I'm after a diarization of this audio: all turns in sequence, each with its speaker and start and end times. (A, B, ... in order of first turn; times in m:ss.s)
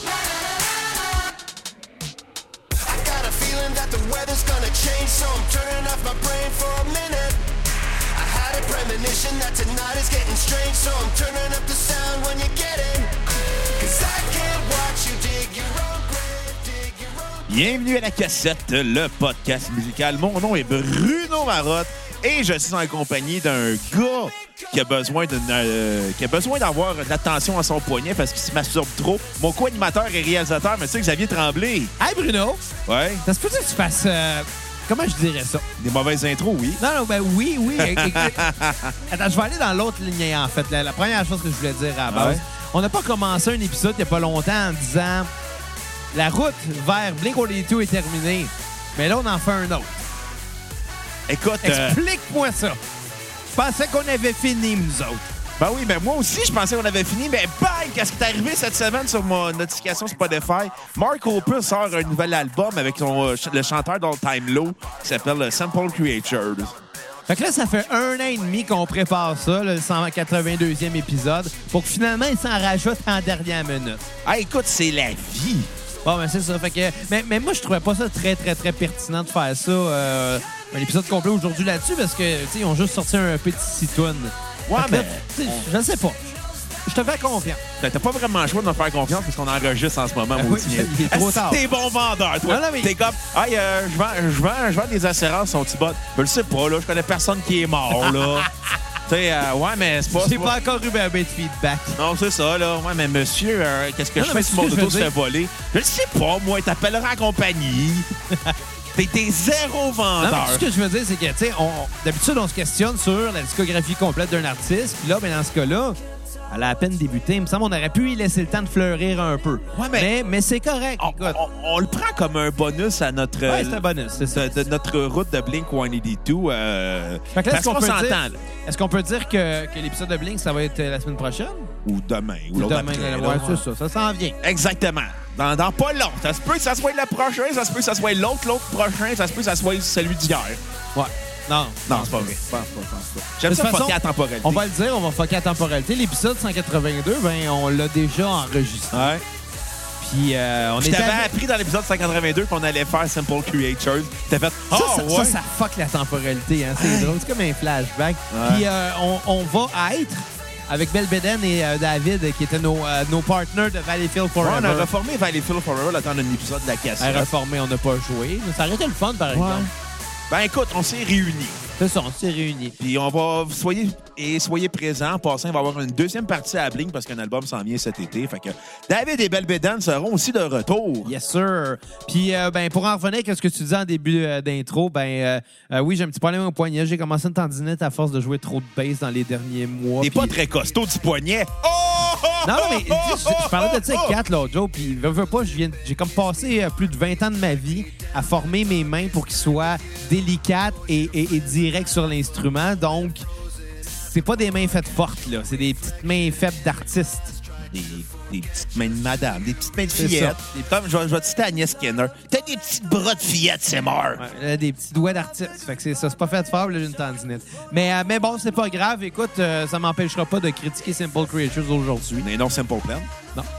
0:02.8-0:07.5 A
0:08.0-0:17.4 A
0:17.5-0:31.9 B
0:32.0-0:32.6 C
0:32.8-0:33.2 B
0:33.2-0:35.6 C
0:35.8-0:36.8 B
0:36.8-0:38.4 C
0:37.8-0:38.9 B
0:39.1-0:45.3 C
0:42.1-0:42.4 B
0:46.1-0:50.0 C
0:51.3-0:52.0 B
0:51.6-0:52.8 C
0:53.5-0:55.2 C
0:55.6-1:06.8 B
1:07.3-1:14.0 C
1:14.2-1:15.7 B
1:16.0-1:26.3 C
1:24.7-1:25.7 B
1:26.9-1:27.6 C
1:27.8-1:38.5 B
1:30.3-1:31.6 C
1:32.4-1:32.9 C
1:38.0-1:38.5 C
1:39.0-1:40.6 B
1:40.1-1:42.0 C
1:42.0-1:48.1 B
1:44.2-1:45.1 C
1:48.9-1:50.6 B
1:50.2-1:56.0 C
1:56.5-2:01.4 C
1:59.7-2:00.1 B
2:01.0-2:08.5 B
2:03.5-2:04.5 C
2:07.3-2:11.7 C
2:11.8-2:13.7 B
2:12.5-2:14.4 C
2:14.4-2:20.6 B
2:21.0-2:22.6 C
2:21.9-2:24.6 B
2:23.5-2:29.2 C
2:28.9-2:29.2 B
2:30.0-2:31.3 C
2:30.8-2:35.4 B
2:34.7-2:44.9 C
2:36.8-2:37.2 B
2:38.3-2:38.7 B
2:44.4-2:47.3 B
2:47.0-2:49.7 C
2:49.3-2:49.7 B
2:50.3-2:51.6 B
2:51.8-2:52.8 C
2:52.8-3:01.1 B
3:01.0-3:10.4 C
3:10.0-3:14.2 B
3:12.4-3:23.2 C
3:23.8-3:27.4 C
3:27.7-3:34.2 B
3:29.9-3:30.6 C
3:34.2-3:42.3 C
3:42.2-3:43.1 B